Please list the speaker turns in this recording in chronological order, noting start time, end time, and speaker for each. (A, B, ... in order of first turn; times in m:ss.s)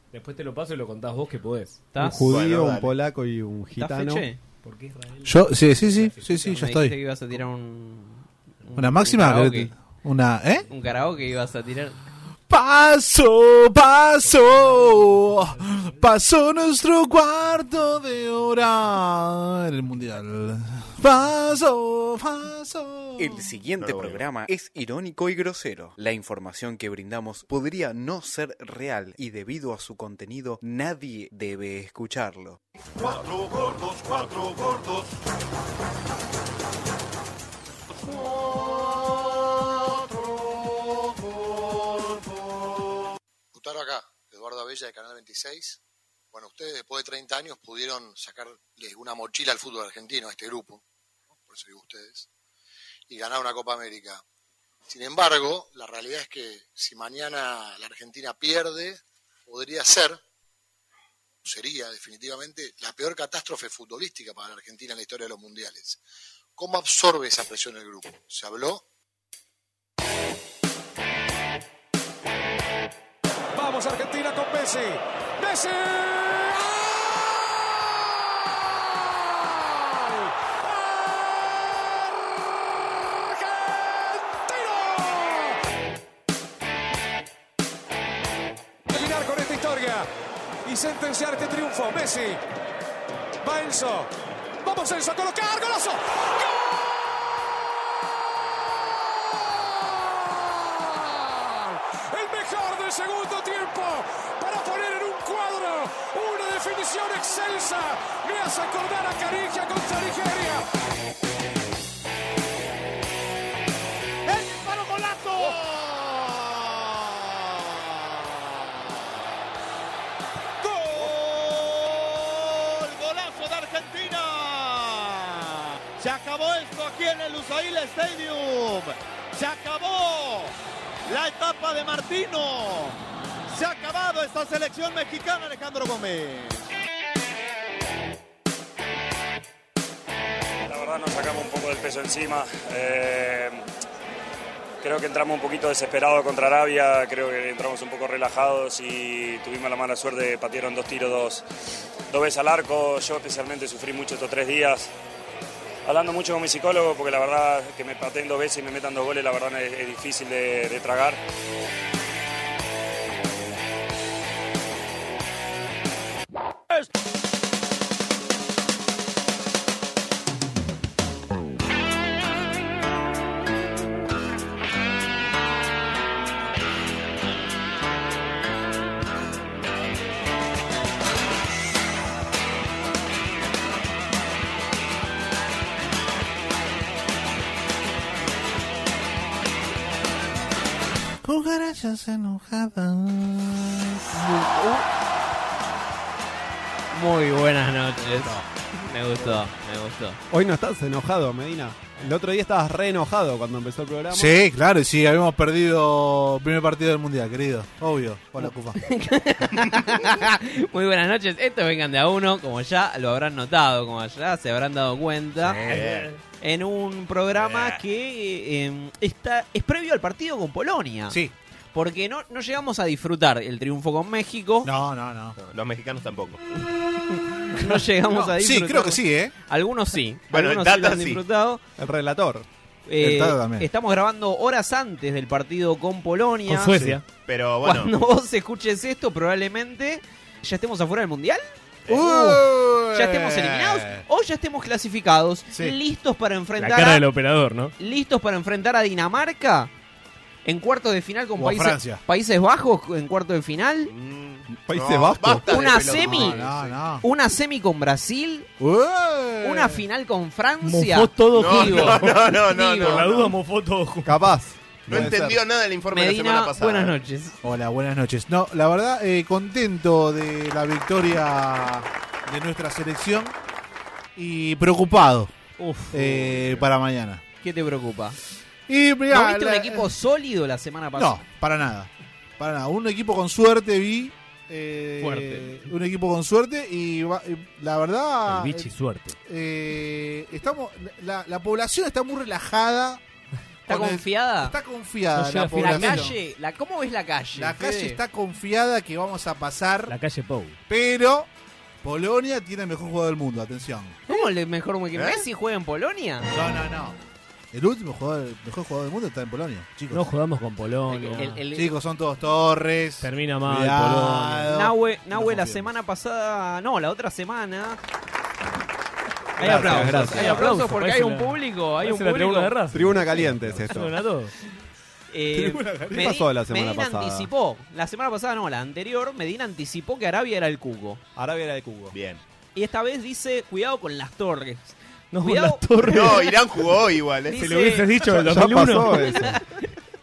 0:00.1-0:01.8 A
0:01.9-0:02.3 B
0:02.0-0:04.3 C
0:02.3-0:02.9 D
0:03.8-0:04.4 B
0:04.6-0:06.6 A
0:05.2-0:06.9 E
0:06.5-0:09.7 B
0:08.8-0:10.6 E
0:10.7-0:12.0 B
0:10.8-0:11.0 A
0:12.5-0:23.4 E
0:14.2-0:16.1 A
0:23.2-0:32.6 F
0:23.8-0:24.2 D
0:43.5-0:45.8 G
0:46.3-0:50.8 G
0:51.3-0:52.3 G
0:53.1-0:54.2 G
0:54.9-1:00.2 G
1:01.4-1:06.0 G
1:06.6-1:08.8 G
1:13.5-1:17.6 H
1:18.7-1:25.6 H
1:28.9-1:30.1 H
1:30.6-1:32.4 H
1:33.4-1:34.1 H
1:34.6-1:37.2 H
1:39.1-1:50.6 H
1:54.3-1:55.5 E
1:55.6-1:56.3 I
2:00.7-2:02.1 I
2:02.7-2:05.2 I
2:06.0-2:10.4 I
2:11.1-2:12.8 I
2:13.6-2:16.5 I
2:20.6-2:23.6 J
2:24.8-2:31.4 J
2:32.1-2:34.9 J
2:35.8-2:41.2 J
3:11.2-3:14.3 E
3:14.3-3:14.8 B
3:16.9-3:20.2 B
3:18.1-3:18.4 E
3:20.3-3:24.3 C
3:24.1-3:28.8 E
3:28.4-3:35.7 B
3:35.4-3:36.2 A
3:35.6-3:36.1 D
3:36.4-3:41.2 B
3:37.3-3:37.8 D
3:41.7-3:44.7 B
3:44.6-3:45.3 E
3:45.4-3:46.4 D
3:47.1-3:51.6 B
3:47.7-3:49.3 E
3:50.3-3:51.2 D
3:51.8-3:52.4 C
3:52.9-3:56.8 B
3:53.0-3:53.6 E
3:56.5-3:57.0 A
3:57.3-3:57.9 D
3:57.6-4:07.0 B
4:01.9-4:04.0 E
4:06.6-4:07.7 A
4:07.8-4:09.7 B
4:10.4-4:13.9 B
4:11.4-4:12.0 E
4:13.9-4:16.8 D
4:14.5-4:16.1 C
4:15.5-4:16.4 B
4:16.1-4:17.0 E
4:17.0-4:18.5 B
4:18.6-4:19.8 E
4:19.4-4:23.1 B
4:20.6-4:24.3 A
4:21.3-4:23.3 D
4:24.0-4:25.4 C
4:24.9-4:27.0 D
4:25.9-4:27.4 B
4:27.4-4:33.3 E
4:34.2-4:35.3 E
4:35.6-4:36.2 A
4:35.9-4:37.2 E
4:37.4-4:38.2 B
4:38.7-4:39.9 E
4:39.1-4:41.2 B
4:41.0-4:48.7 E
4:45.0-4:45.6 B
4:48.2-4:49.2 A
4:49.2-4:53.0 E
4:53.7-4:54.6 B
4:53.7-4:56.2 E
4:55.2-4:56.1 A
4:55.5-4:58.0 B
4:57.3-4:59.9 E
4:59.9-5:00.6 A
5:00.7-5:01.3 E
5:01.8-5:04.0 E
5:04.1-5:06.3 B
5:05.0-5:05.2 D
5:06.3-5:07.0 E
5:07.5-5:10.0 E
5:09.9-5:11.4 A
5:10.9-5:11.7 B
5:11.5-5:15.7 E
5:13.0-5:14.5 A
5:14.5-5:17.8 B
5:19.4-5:22.5 B
5:19.4-5:20.5 C
5:19.4-5:20.1 E
5:19.6-5:24.3 A
5:22.7-5:24.0 C
5:25.1-5:31.0 B
5:25.3-5:27.3 C
5:31.2-5:31.9 C
5:31.9-5:32.2 D
5:32.5-5:36.3 B
5:35.1-5:36.3 A
5:35.8-5:37.4 D
5:37.3-5:38.0 B
5:37.3-5:39.3 A
5:38.0-5:39.4 C
5:38.8-5:39.7 B